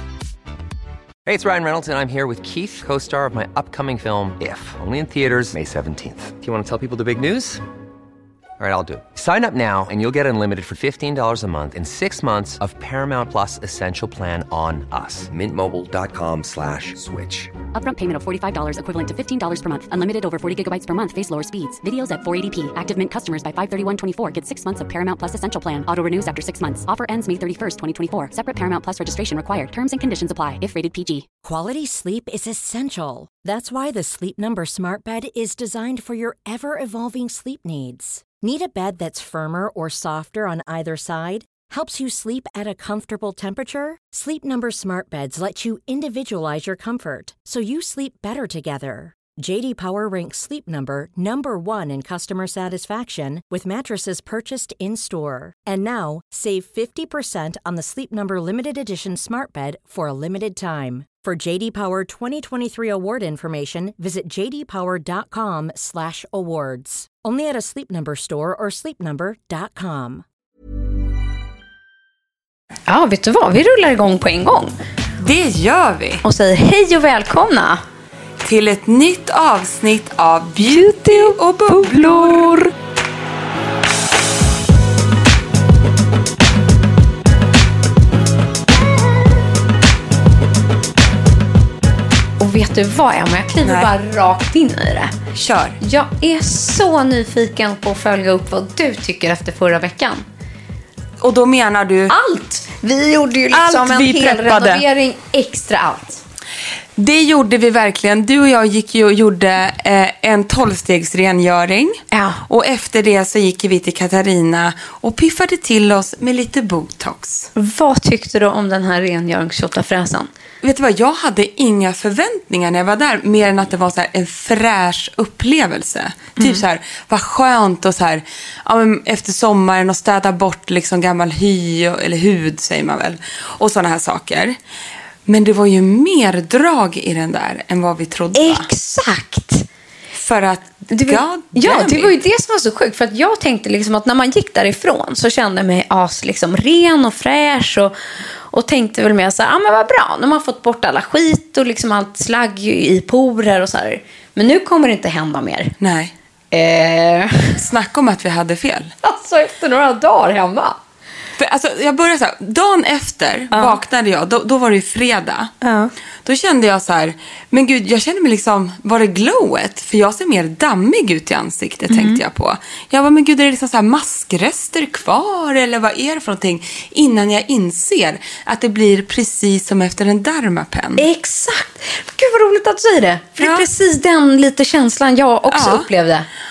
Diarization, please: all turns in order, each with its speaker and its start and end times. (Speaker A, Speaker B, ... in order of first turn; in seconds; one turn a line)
Speaker A: 1.2-7.6
Speaker A: 8.6-17.5
Speaker B: 17.7-31.2
Speaker C: 31.4-70.2
Speaker D: 72.9-74.7
Speaker E: 75.2-76.2
Speaker D: 76.2-77.8
Speaker E: 78.4-82.6
Speaker D: 80.6-82.7
Speaker D: 92.4-95.1
Speaker E: 93.6-93.9
Speaker E: 95.3-95.8
Speaker D: 95.8-100.2
Speaker E: 101.2-102.2
Speaker D: 102.1-106.2
Speaker E: 103.5-104.8
Speaker E: 107.0-117.5
Speaker D: 112.1-112.4
Speaker D: 117.5-120.3
Speaker E: 120.6-134.6
Speaker D: 126.4-126.6
Speaker E: 135.2-138.7
Speaker D: 138.3-139.7
Speaker E: 140.1-142.2
Speaker D: 140.9-147.9
Speaker D: 148.5-155.7
Speaker E: 155.8-156.1
Speaker D: 156.5-157.6
Speaker E: 157.6-158.9
Speaker D: 159.0-160.8
Speaker E: 161.4-165.5
Speaker D: 163.5-163.8
Speaker D: 165.6-165.9
Speaker E: 166.2-181.0
Speaker D: 171.9-172.2
Speaker D: 181.0-186.3
Speaker E: 183.4-183.7
Speaker E: 185.5-185.9